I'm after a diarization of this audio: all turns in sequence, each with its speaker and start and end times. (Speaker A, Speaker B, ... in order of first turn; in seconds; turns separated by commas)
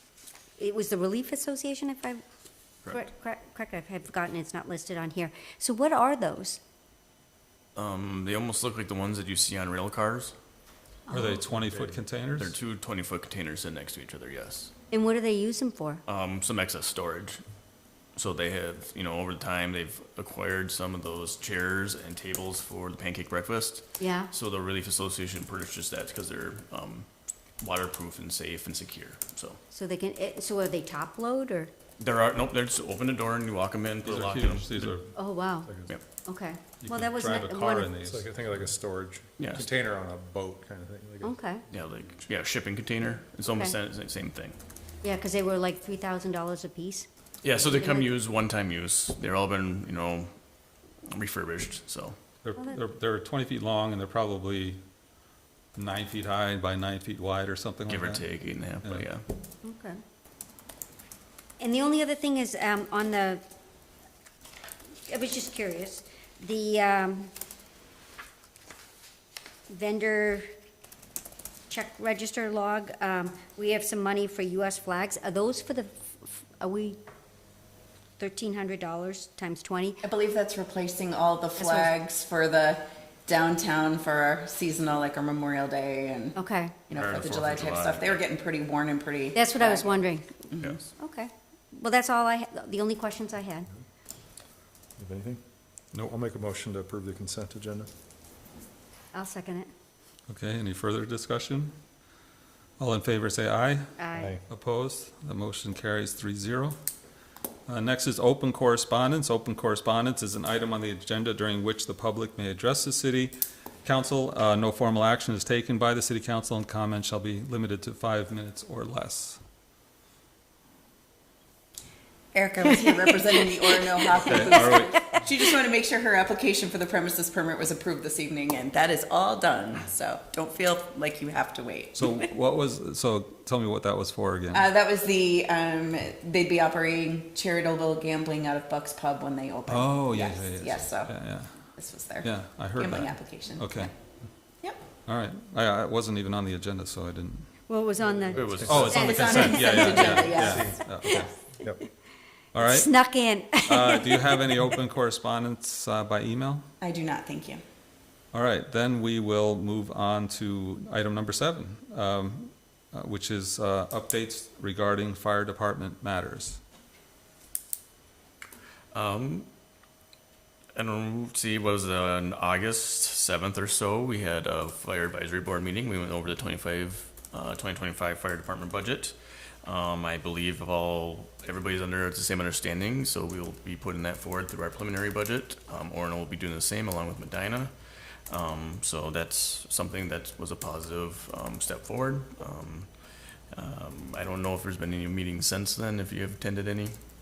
Speaker A: 0.6-2.2, Speaker A: 2.9-6.6, Speaker B: 7.8-10.3, Speaker A: 11.1-11.4, Speaker C: 11.1-12.6, Speaker B: 12.4-14.7, Speaker A: 14.9-16.0, Speaker B: 16.1-17.4, Speaker B: 18.1-27.1, Speaker A: 24.0-24.3, Speaker B: 27.6-29.6, Speaker A: 29.7-31.7, Speaker B: 32.0-34.9, Speaker C: 34.0-35.1, Speaker A: 35.1-35.7, Speaker D: 35.6-36.0, Speaker A: 36.2-37.9, Speaker C: 36.9-38.3, Speaker D: 38.0-41.4, Speaker B: 39.4-39.7, Speaker A: 41.2-41.6, Speaker B: 41.7-44.6, Speaker A: 43.4-43.7, Speaker A: 45.0-47.1, Speaker B: 47.4-50.4, Speaker A: 47.7-48.1, Speaker B: 51.1-52.2, Speaker C: 52.4-54.8, Speaker C: 55.7-58.3, Speaker B: 57.9-59.2, Speaker C: 58.8-59.1, Speaker A: 59.6-60.0, Speaker A: 61.6-63.4, Speaker A: 65.1-67.3, Speaker A: 69.7-70.5, Speaker A: 71.7-77.0, Speaker A: 78.2-80.0, Speaker E: 80.0-86.4, Speaker A: 81.6-81.9, Speaker A: 86.3-86.7, Speaker E: 86.9-90.8, Speaker B: 86.9-88.2, Speaker A: 89.3-93.7, Speaker B: 90.6-90.8, Speaker D: 95.0-95.4, Speaker D: 96.0-97.9, Speaker A: 99.1-99.7, Speaker C: 100.3-101.7, Speaker C: 102.8-106.8, Speaker A: 104.0-104.3, Speaker D: 104.2-104.4, Speaker C: 107.7-119.4, Speaker E: 122.3-132.2, Speaker A: 124.2-124.7, Speaker C: 124.2-125.3, Speaker C: 131.9-134.7, Speaker E: 134.5-141.1, Speaker C: 139.7-143.9, Speaker E: 141.8-143.9, Speaker C: 145.1-147.5, Speaker A: 147.7-150.5, Speaker B: 148.3-149.3, Speaker D: 148.5-148.9, Speaker C: 148.6-151.3, Speaker E: 148.9-150.7, Speaker D: 150.0-150.9, Speaker C: 152.5-153.0, Speaker A: 152.6-154.3, Speaker C: 153.5-156.7, Speaker E: 156.8-157.6, Speaker C: 158.3-166.6, Speaker B: 168.9-169.5, Speaker B: 170.7-193.0, Speaker B: 193.5-197.0